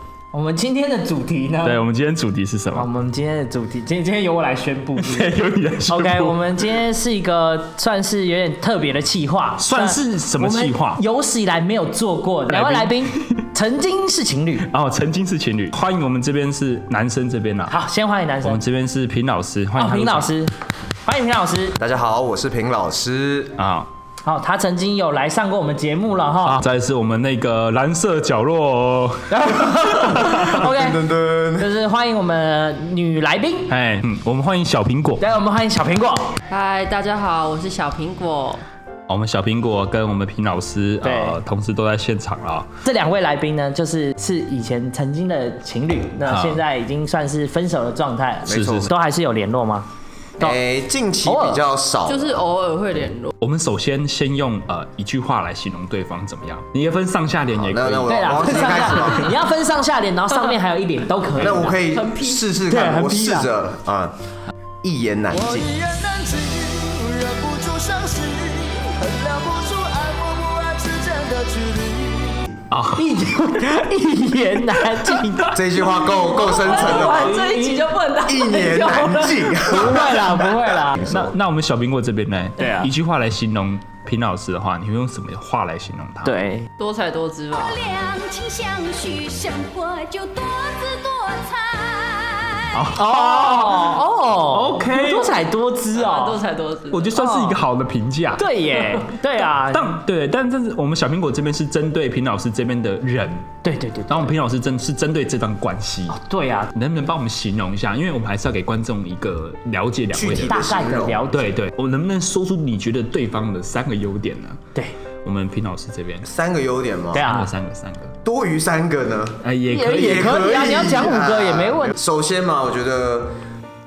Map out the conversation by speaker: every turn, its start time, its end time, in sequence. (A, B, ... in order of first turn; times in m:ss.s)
0:00.3-0:01.8 A
0:01.6-0:02.9 B
0:02.8-0:05.4 A
0:05.0-0:06.4 B
0:05.9-0:14.7 A
0:09.6-0:11.0 B
0:12.5-0:13.3 B
0:14.6-0:17.8 B
0:17.7-0:18.6 A
0:18.4-0:20.3 B
0:19.8-0:20.5 A
0:21.0-0:21.8 A
0:21.8-0:23.6 C
0:23.6-0:23.9 B
0:24.2-0:26.6 A
0:26.4-0:30.6 B
0:29.3-0:31.0 A
0:30.4-0:31.7 C
0:31.6-0:33.7 A
0:33.7-0:35.2 B
0:35.2-0:36.3 A
0:36.5-0:38.6 D
0:39.1-0:42.7 B
0:41.0-0:41.4 A
0:42.8-0:49.9 A
0:46.3-0:46.6 B
0:48.5-0:48.9 C
0:48.5-0:48.9 B
0:50.4-0:52.4 C
0:51.3-0:51.6 A
0:52.1-0:53.4 D
0:53.4-0:58.9 B
0:57.5-0:59.4 C
0:58.0-1:01.8 A
1:01.4-1:04.2 C
1:01.8-1:02.5 D
1:02.7-1:03.5 A
1:04.8-1:05.7 C
1:05.3-1:12.5 E
1:12.7-1:13.1 B
1:13.0-1:15.6 A
1:15.5-1:17.4 C
1:16.0-1:19.6 D
1:16.6-1:17.9 A
1:18.3-1:21.3 C
1:19.6-1:21.1 A
1:21.1-1:26.4 B
1:22.6-1:22.9 A
1:26.2-1:26.7 A
1:26.8-1:27.8 D
1:27.6-1:32.8 F
1:32.7-1:35.4 B
1:32.9-1:36.4 A
1:35.9-1:37.2 D
1:36.9-1:38.5 B
1:37.1-1:37.6 A
1:38.4-1:40.0 A
1:38.8-1:39.1 D
1:39.7-1:43.6 B
1:43.6-1:44.4 A
1:44.1-1:46.2 B
1:46.1-1:46.7 A
1:46.7-1:50.6 B
1:50.1-1:51.3 C
1:50.3-1:51.5 A
1:51.3-1:54.6 B
1:55.2-1:56.3 B
1:56.2-1:57.3 C
1:57.1-1:57.5 A
1:57.2-1:58.1 B
1:58.2-1:59.4 C
1:59.4-2:00.5 B
1:59.7-2:02.0 A
1:59.9-2:03.4 C